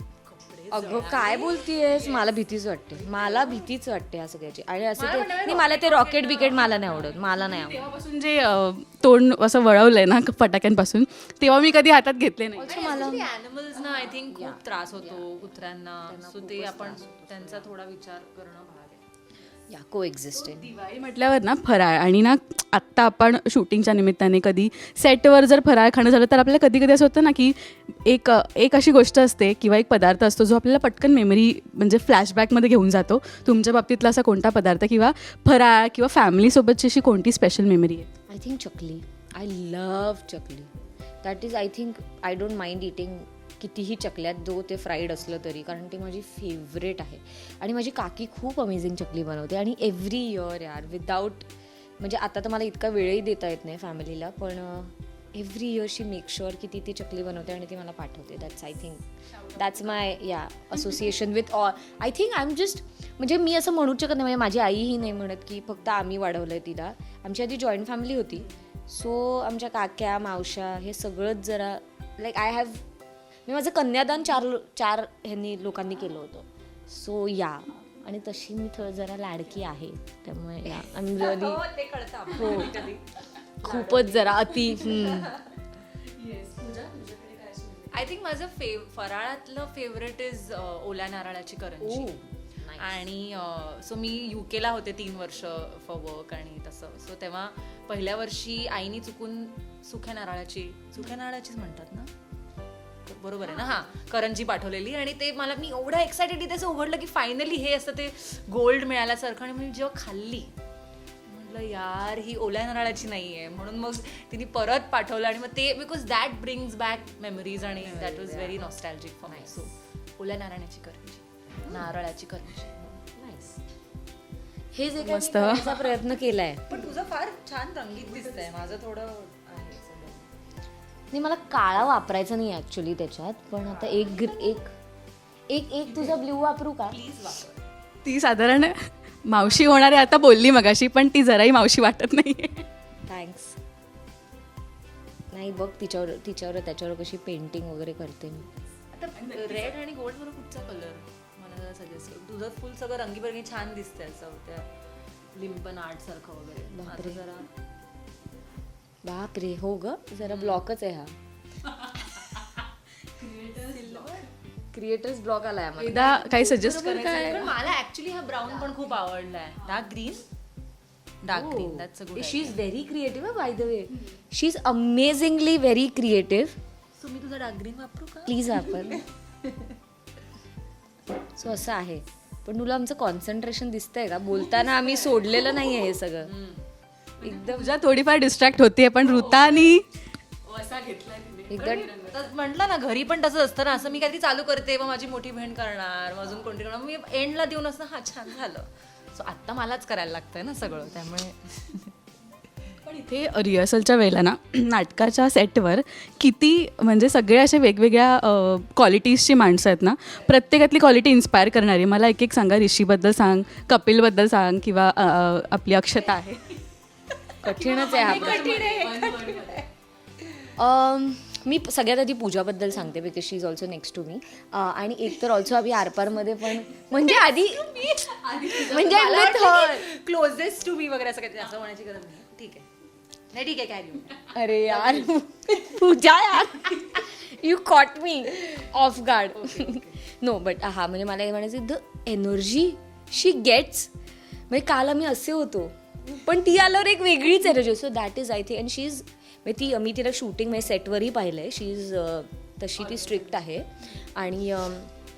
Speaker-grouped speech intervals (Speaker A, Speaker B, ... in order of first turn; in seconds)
Speaker A: 0.2-2.2, 3.1-3.6, 5.0-7.5, 12.7-19.0, 80.9-85.5, 87.9-92.2, 92.8-102.1, 103.1-110.5, 111.3-123.0, 126.7-130.3, 133.6-134.6, 135.9-136.2, 136.9-137.6, 148.9-154.7, 155.3-157.5, 160.2-160.7, 163.6-164.3, 166.8-170.2, 171.2-172.6, 177.0-179.7, 184.8-185.2, 186.2-186.7, 191.6-201.9, 217.5-219.6, 227.0-232.7, 233.3-235.2, 239.3-240.0, 252.8-253.4
Speaker B: 0.7-7.9, 12.6-13.3, 14.3-15.4, 16.1-17.7, 19.7-20.7, 38.3-40.7, 41.2-59.0, 59.5-72.8, 73.5-81.6, 82.3-82.8, 83.6-85.4, 91.8-93.1, 117.8-118.6, 119.3-119.6, 123.2-123.6, 124.7-126.9, 128.1-128.7, 131.1-134.7, 135.5-137.0, 143.1-143.6, 145.3-148.5, 156.7-157.2, 159.0-161.1, 164.7-167.5, 168.5-168.8, 171.3-176.6, 178.3-179.0, 181.4-186.3, 187.2-187.8, 191.5-191.9, 217.4-218.8, 220.6-227.9, 228.6-229.9, 234.3-243.9, 244.5-254.9
Speaker C: 7.3-12.8, 20.4-38.1, 59.4-60.1, 84.6-85.3, 86.1-88.0, 125.0-126.0, 138.1-142.7, 149.2-149.8, 161.7-162.6, 163.2-164.1, 165.8-167.6, 169.6-169.9, 187.2-189.9, 190.4-192.2, 202.8-216.6, 217.5-219.7, 227.9-229.3